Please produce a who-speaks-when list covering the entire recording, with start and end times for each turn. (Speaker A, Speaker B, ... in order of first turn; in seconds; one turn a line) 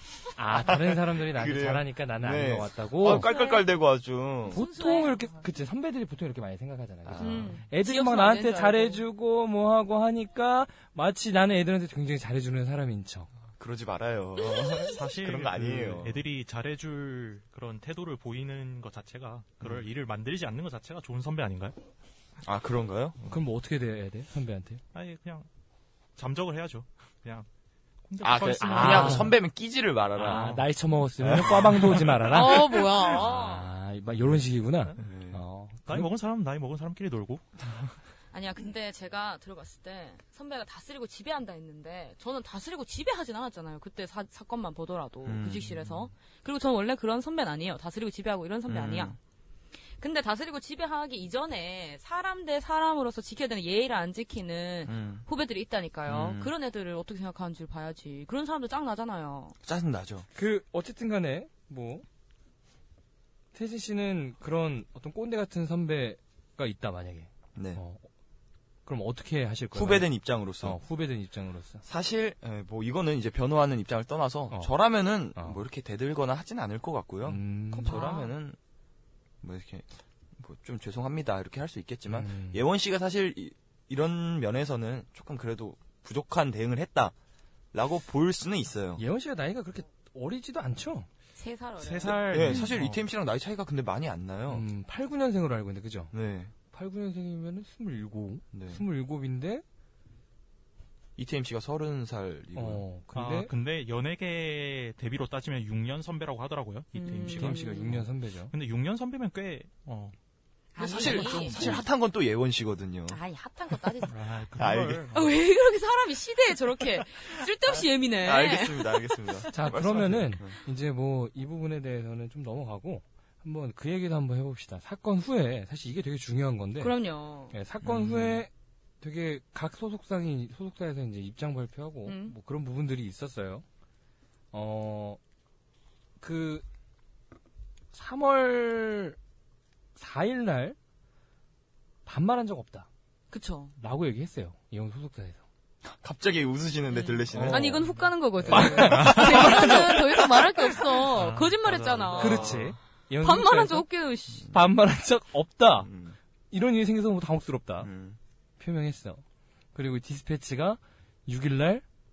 Speaker A: 0.4-3.3
Speaker B: 0.5-4.6
Speaker C: 3.0-3.7
Speaker C: 4.5-5.2
Speaker A: 4.5-13.3
Speaker B: 7.1-7.6
Speaker C: 7.2-9.0
Speaker B: 13.6-16.2
Speaker D: 14.9-21.8
Speaker B: 22.4-23.2
Speaker A: 23.3-24.8
Speaker D: 24.9-25.5
Speaker D: 26.2-27.5
Speaker D: 28.1-29.4
Speaker B: 28.2-30.6
Speaker A: 28.6-29.4
Speaker D: 30.2-30.6
Speaker A: 30.2-36.1
Speaker B: 31.2-32.1
Speaker D: 31.4-32.0
Speaker C: 32.3-33.7
Speaker B: 35.0-35.4
Speaker D: 35.9-37.5
Speaker C: 38.3-49.2
Speaker B: 45.2-46.1
Speaker B: 48.7-49.2
Speaker C: 50.0-59.6
Speaker B: 54.9-55.2
Speaker B: 56.1-56.5
Speaker B: 59.6-60.3
Speaker A: 60.4-62.0
Speaker A: 63.5-68.0
Speaker B: 67.6-67.8
Speaker A: 68.9-71.8
Speaker B: 69.7-70.8
Speaker B: 71.8-78.6
Speaker A: 75.3-75.6
Speaker A: 77.2-78.1
Speaker C: 77.8-78.3
Speaker B: 79.4-87.1
Speaker A: 82.1-82.6
Speaker B: 87.7-89.0
Speaker A: 89.0-91.1
Speaker C: 91.4-92.7
Speaker D: 91.8-93.0
Speaker B: 92.0-94.6
Speaker A: 94.5-96.1
Speaker B: 96.1-96.5
Speaker A: 96.7-99.6
Speaker B: 98.5-98.8
Speaker B: 101.2-102.8
Speaker A: 102.5-103.5
Speaker D: 103.2-110.2
Speaker C: 107.0-107.9
Speaker A: 107.3-108.5
Speaker C: 110.8-111.8
Speaker B: 110.8-113.2
Speaker D: 110.9-111.8
Speaker C: 113.1-114.2
Speaker D: 114.1-115.3
Speaker B: 114.5-115.1
Speaker C: 115.1-119.1
Speaker B: 118.2-120.6
Speaker A: 119.5-127.0
Speaker C: 126.8-127.5
Speaker A: 127.5-128.5
Speaker B: 127.8-128.4
Speaker A: 129.0-133.6
Speaker C: 132.1-132.3
Speaker A: 134.5-135.2
Speaker A: 136.2-136.7
Speaker A: 137.9-139.2
Speaker A: 140.0-140.8
Speaker A: 142.1-142.9
Speaker C: 143.3-143.7
Speaker A: 143.8-145.4
Speaker B: 145.9-149.8
Speaker C: 146.9-152.5
Speaker A: 147.3-147.9
Speaker A: 148.5-150.4
Speaker D: 148.9-149.2
Speaker D: 151.1-152.5
Speaker B: 151.6-152.8
Speaker A: 152.2-153.9
Speaker C: 153.2-154.5
Speaker A: 154.5-155.9
Speaker B: 155.8-156.2
Speaker A: 156.5-157.9
Speaker B: 157.8-158.2
Speaker A: 158.6-159.2
Speaker A: 159.8-161.8